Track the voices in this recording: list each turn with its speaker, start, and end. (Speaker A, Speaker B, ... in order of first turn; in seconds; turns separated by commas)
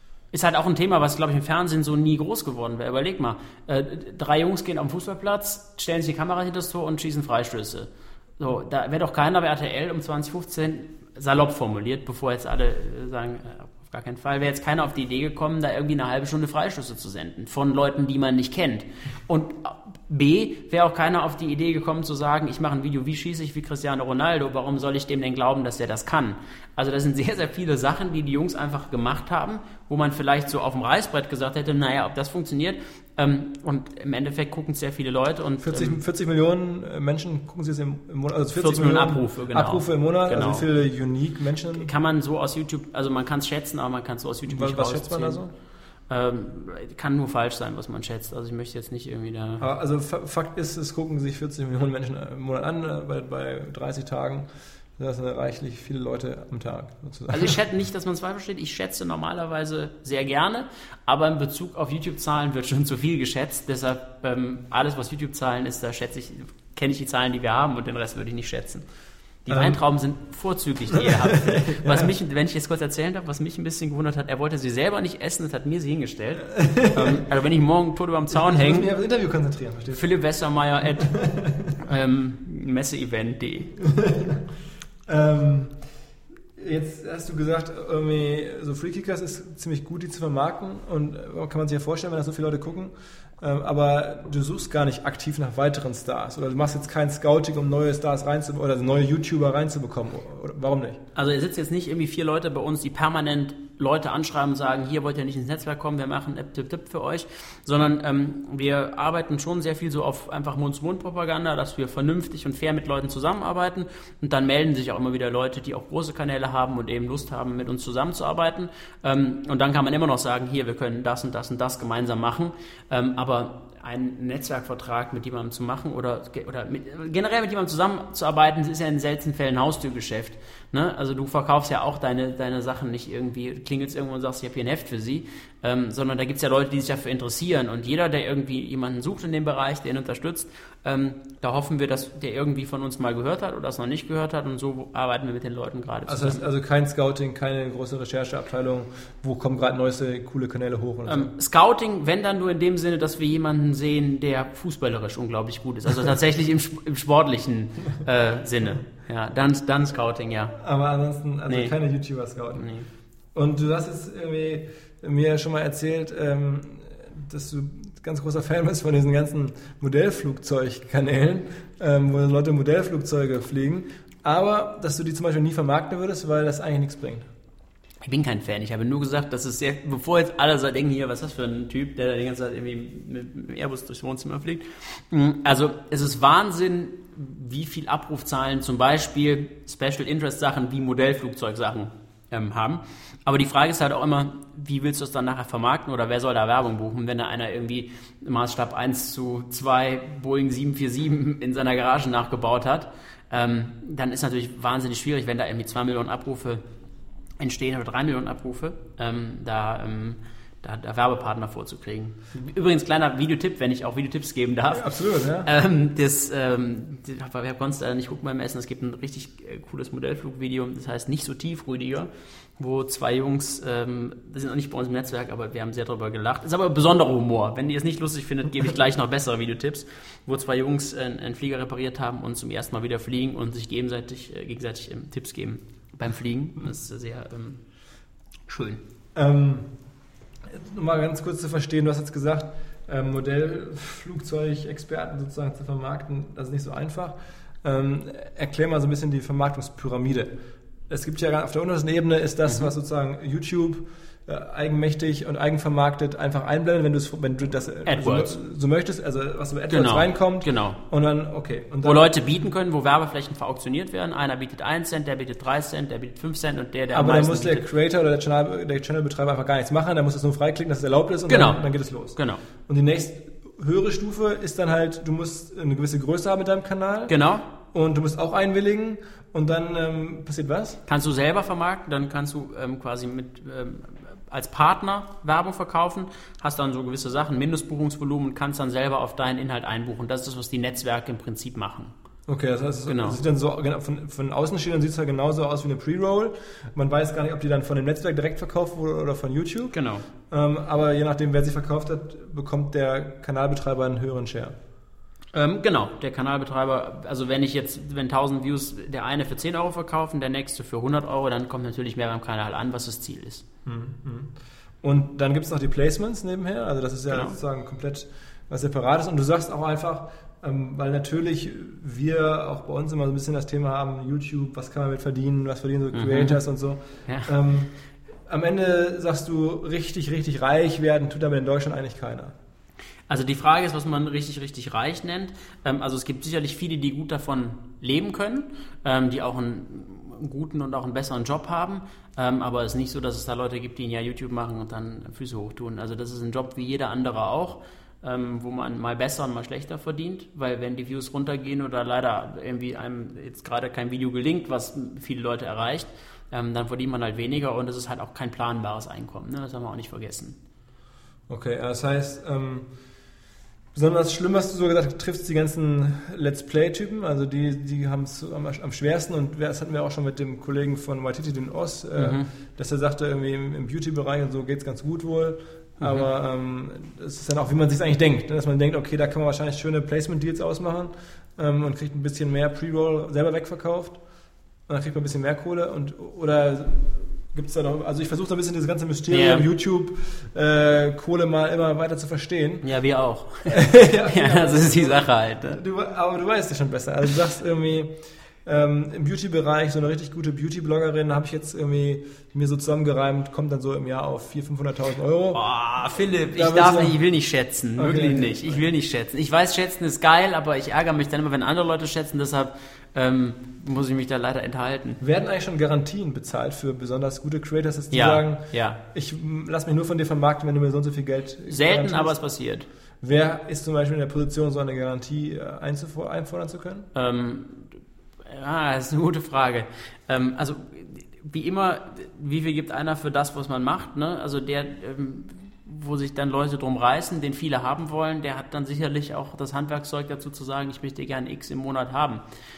Speaker A: 0.3-36.0, Speaker B: 35.6-41.9, Speaker A: 38.5-40.6, Speaker A: 41.7-45.4, Speaker B: 44.5-45.5, Speaker A: 46.1-49.6, Speaker B: 49.6-57.6, Speaker A: 57.3-68.8, Speaker A: 69.5-78.9, Speaker B: 69.5-69.8, Speaker B: 71.0-72.1, Speaker B: 76.5-77.2, Speaker B: 78.3-80.0, Speaker A: 79.9-81.1, Speaker B: 81.0-81.7, Speaker A: 81.8-83.8, Speaker B: 83.8-84.4, Speaker B: 85.1-85.8, Speaker B: 86.6-101.0, Speaker A: 101.2-146.4, Speaker B: 146.1-151.3, Speaker A: 151.1-160.6, Speaker B: 160.6-162.7, Speaker A: 161.5-161.8, Speaker A: 162.6-162.9, Speaker B: 163.3-177.3, Speaker A: 178.0-206.6, Speaker A: 207.4-237.6, Speaker B: 214.7-215.5, Speaker A: 238.5-238.8, Speaker B: 239.2-239.7, Speaker B: 240.5-250.3, Speaker B: 250.9-262.1, Speaker A: 257.9-258.4, Speaker A: 259.7-260.8, Speaker A: 261.8-267.6, Speaker B: 266.9-277.1, Speaker A: 271.3-272.4, Speaker A: 277.1-277.5, Speaker B: 277.7-280.8, Speaker A: 280.9-291.9, Speaker B: 292.3-299.8, Speaker A: 292.9-293.2, Speaker A: 299.7-300.1, Speaker B: 300.3-304.6, Speaker A: 305.3-313.4, Speaker B: 313.6-327.7, Speaker A: 325.9-326.4, Speaker B: 328.3-332.4, Speaker A: 333.1-360.4, Speaker B: 361.3-362.7, Speaker B: 363.7-384.0, Speaker A: 372.0-372.3, Speaker A: 375.8-376.1, Speaker B: 384.7-392.7, Speaker A: 389.1-389.5, Speaker A: 392.6-395.6, Speaker B: 393.5-405.4, Speaker A: 405.3-415.0, Speaker B: 406.4-407.0, Speaker B: 407.8-408.6, Speaker B: 415.0-422.2, Speaker A: 417.9-418.8, Speaker A: 421.5-422.7, Speaker B: 423.0-426.9, Speaker A: 426.9-442.2